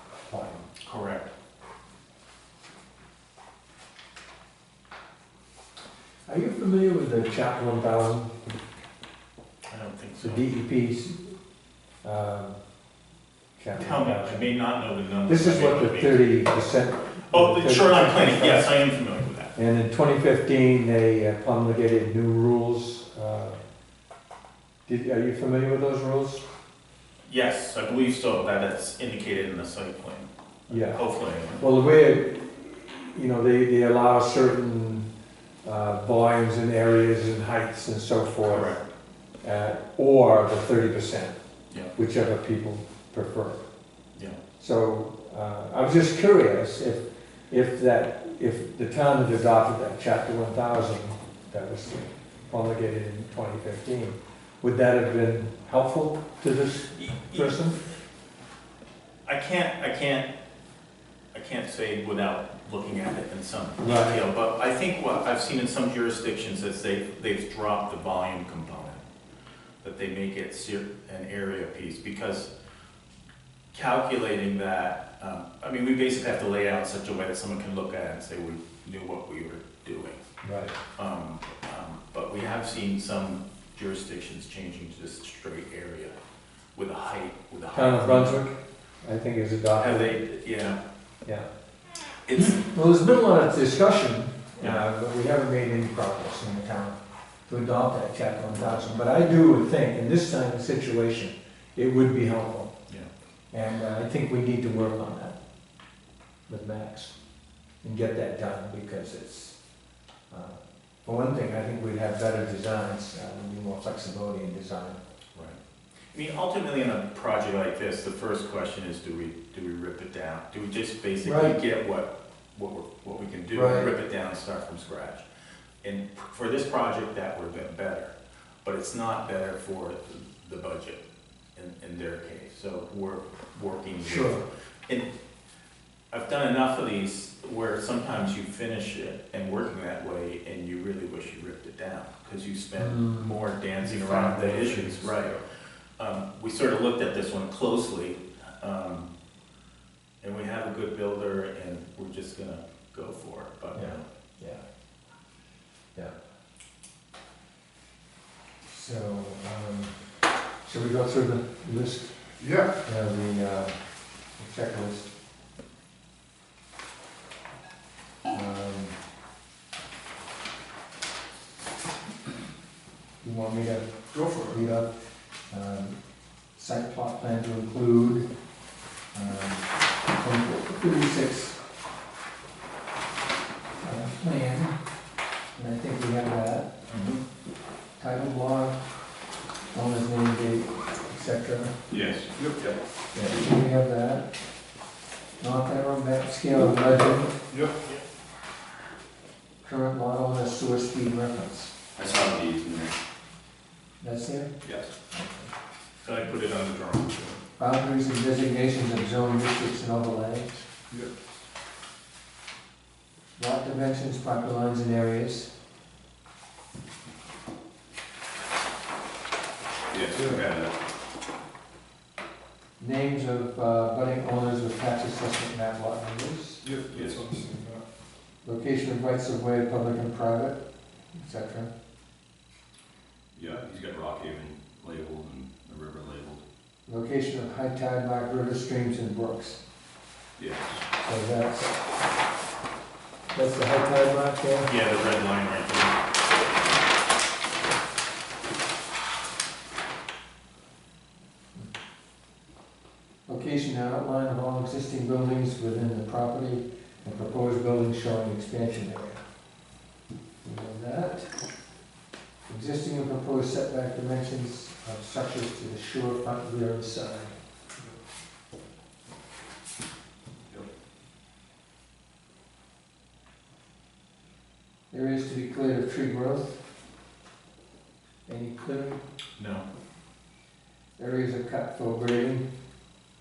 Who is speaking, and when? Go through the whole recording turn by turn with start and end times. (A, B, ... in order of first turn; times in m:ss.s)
0:00.3-0:00.7 A
0:00.8-0:01.3 B
0:06.3-0:08.4 A
0:09.7-0:10.5 B
0:10.2-0:11.3 A
0:12.0-0:12.6 A
0:13.6-0:14.4 A
0:13.8-0:16.3 B
0:15.3-0:18.7 A
0:17.3-0:19.5 B
0:19.5-0:23.6 A
0:24.9-0:26.4 A
0:27.2-0:31.6 B
0:30.7-0:31.0 A
0:31.6-0:35.0 A
0:35.6-0:38.7 A
0:38.4-0:38.8 B
0:39.4-0:41.3 A
0:41.9-0:43.6 A
0:44.6-0:57.8 A
0:57.0-0:57.6 B
0:59.2-1:00.3 B
1:01.3-1:09.0 B
1:03.8-1:04.2 A
1:09.8-1:12.5 B
1:13.7-1:20.2 B
1:20.4-1:20.7 A
1:21.0-1:26.1 B
1:26.8-1:28.4 B
1:27.7-1:30.1 A
1:29.8-1:30.8 B
1:32.3-1:32.6 B
1:32.4-1:42.7 A
1:43.5-1:45.3 A
1:46.5-1:47.1 A
1:47.8-1:49.6 A
1:50.3-1:55.0 A
1:56.1-2:05.2 B
2:01.2-2:01.6 A
2:03.5-2:03.9 A
2:05.8-2:08.1 B
2:08.6-2:11.0 B
2:11.6-2:15.1 B
2:14.0-2:14.4 A
2:16.1-2:25.4 B
2:22.8-2:25.1 A
2:26.0-2:29.1 B
2:30.2-2:34.0 B
2:33.7-2:34.6 A
2:38.6-2:40.0 A
2:40.6-2:42.1 A
2:42.4-2:42.7 C
2:42.8-2:43.8 A
2:44.4-2:45.1 A
2:48.3-2:49.0 A
2:53.2-2:53.9 A
2:54.1-2:54.6 C
2:54.5-2:54.9 A
2:55.5-2:56.0 A
2:56.6-2:58.2 A
2:59.1-3:01.6 A
3:03.8-3:04.7 A
3:05.5-3:06.7 A
3:06.9-3:07.2 B
3:08.0-3:08.8 A
3:09.7-3:11.7 A
3:11.9-3:12.8 D
3:12.3-3:12.7 C
3:13.1-3:14.3 A
3:15.4-3:17.4 A
3:19.6-3:21.7 A
3:22.0-3:22.9 D
3:24.0-3:24.5 A
3:24.6-3:24.9 D
3:25.1-3:25.5 A
3:26.0-3:27.4 B
3:27.6-3:30.6 A
3:33.4-3:35.5 A
3:39.9-3:40.7 D
3:40.1-3:40.5 C
3:42.8-3:46.6 A
3:46.6-3:47.8 C
3:46.9-3:47.2 D
3:48.4-3:50.6 A
3:51.1-3:51.7 A
3:53.3-3:56.4 D
3:56.8-3:59.6 A
4:00.4-4:00.8 D
4:01.0-4:01.8 A
4:03.3-4:04.7 A
4:04.6-4:06.0 B
4:13.3-4:19.2 A
4:20.4-4:21.3 A
4:22.4-4:27.4 A
4:34.9-4:36.6 A
4:38.2-4:39.0 A
4:39.4-4:39.6 B
4:41.0-4:42.4 A